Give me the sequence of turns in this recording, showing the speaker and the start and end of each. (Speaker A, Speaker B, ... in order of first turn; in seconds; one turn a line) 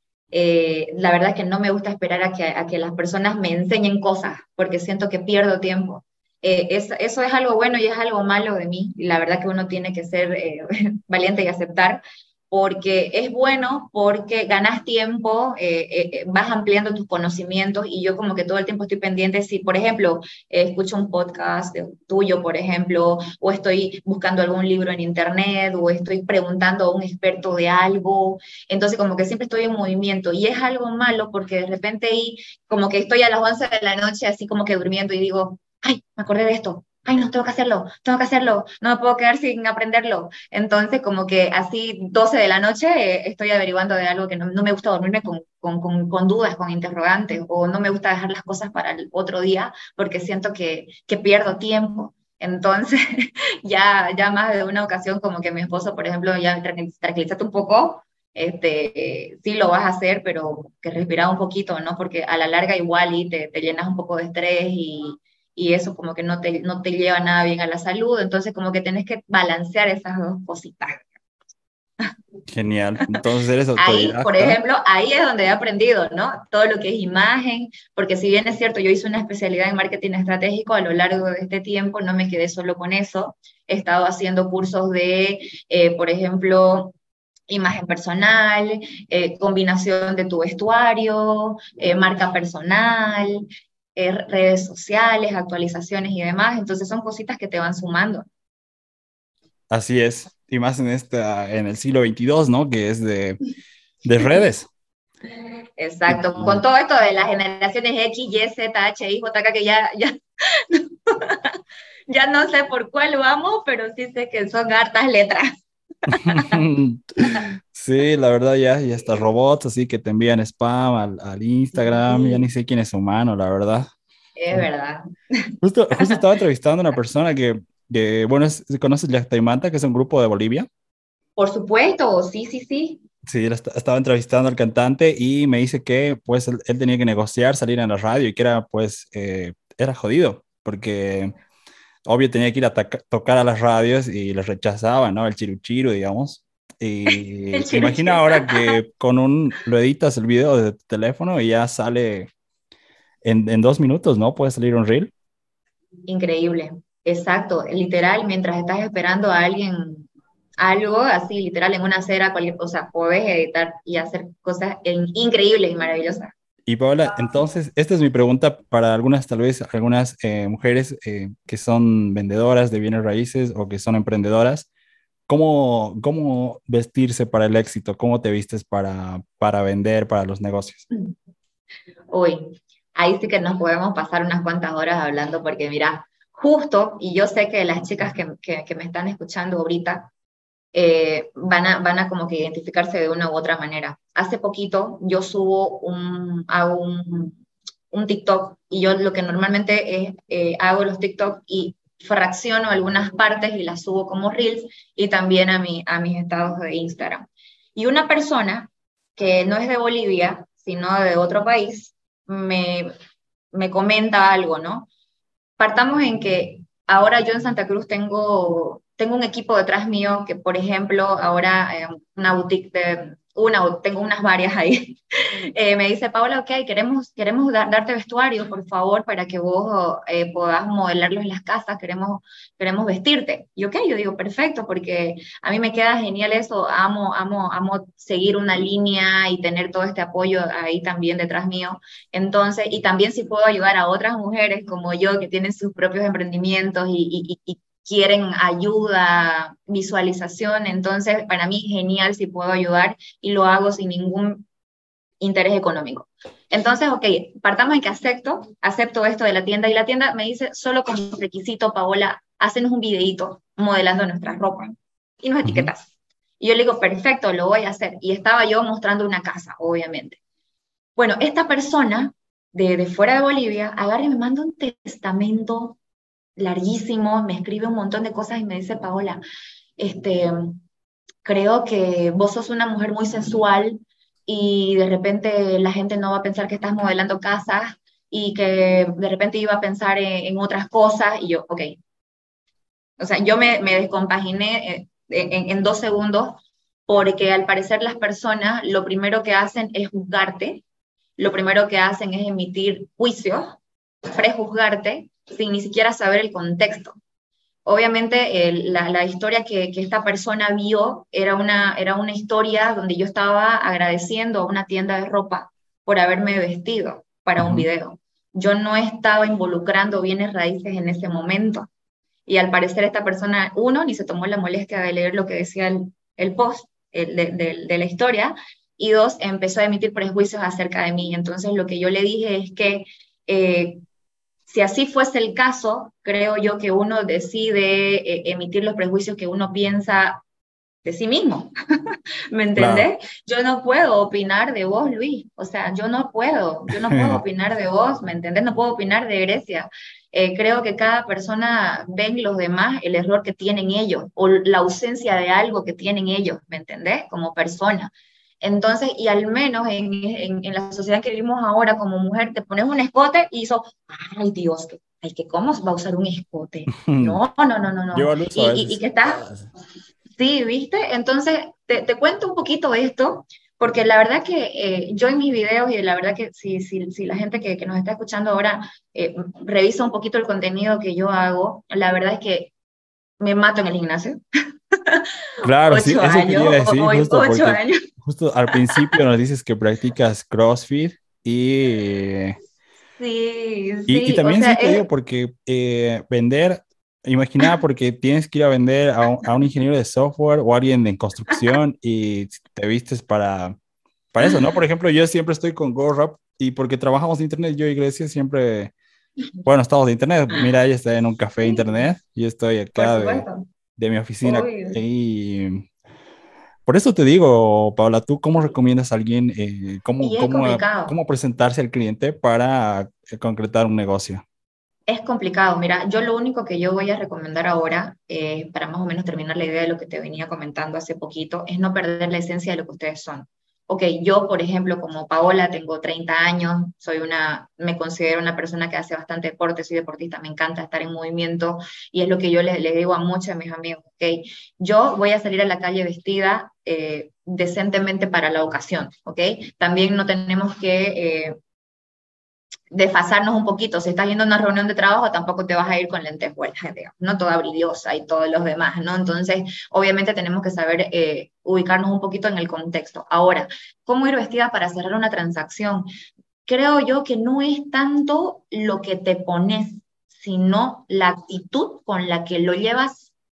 Speaker A: 0.3-71.1
Speaker B: 72.5-74.6
Speaker A: 73.8-86.9
Speaker A: 87.5-98.2
Speaker B: 99.7-103.4
Speaker B: 104.0-104.7
Speaker A: 105.8-111.6
Speaker B: 106.1-106.6
Speaker A: 112.1-116.6
Speaker B: 116.1-123.9
Speaker A: 121.8-122.5
Speaker A: 124.4-126.2
Speaker B: 125.6-130.7
Speaker A: 131.4-133.0
Speaker B: 133.2-141.3
Speaker B: 142.1-152.3
Speaker A: 147.1-148.8
Speaker B: 153.2-155.1
Speaker A: 156.1-160.1
Speaker A: 160.6-166.3
Speaker B: 166.7-174.7
Speaker B: 175.3-180.9
Speaker A: 182.1-190.1
Speaker A: 190.7-197.4
Speaker A: 197.9-212.9
Speaker A: 213.5-214.9
Speaker A: 215.6-225.0
Speaker A: 225.5-254.4
Speaker A: 255.2-270.2
Speaker B: 265.4-265.7
Speaker A: 271.0-275.8
Speaker A: 276.4-279.2
Speaker A: 279.8-280.6
Speaker A: 281.2-291.8
Speaker A: 293.0-300.6
Speaker A: 301.2-303.6
Speaker A: 304.1-306.9
Speaker A: 307.6-321.7
Speaker B: 317.4-317.6
Speaker A: 322.3-333.8
Speaker A: 334.5-340.2
Speaker A: 340.9-341.5
Speaker A: 342.3-369.2
Speaker B: 342.6-342.9
Speaker B: 346.7-347.2
Speaker B: 366.8-367.2
Speaker B: 367.9-369.5
Speaker A: 370.1-382.5
Speaker A: 383.2-384.2
Speaker A: 384.7-385.1
Speaker B: 385.4-392.4
Speaker A: 385.7-387.9
Speaker A: 388.5-389.0
Speaker A: 393.0-394.9
Speaker B: 393.9-403.6
Speaker B: 404.1-408.7
Speaker B: 409.4-413.2
Speaker A: 412.8-413.5
Speaker B: 413.8-415.7
Speaker A: 414.2-414.8
Speaker B: 416.7-424.2
Speaker A: 420.0-420.9
Speaker A: 424.9-451.4
Speaker A: 452.7-465.9
Speaker A: 466.5-473.1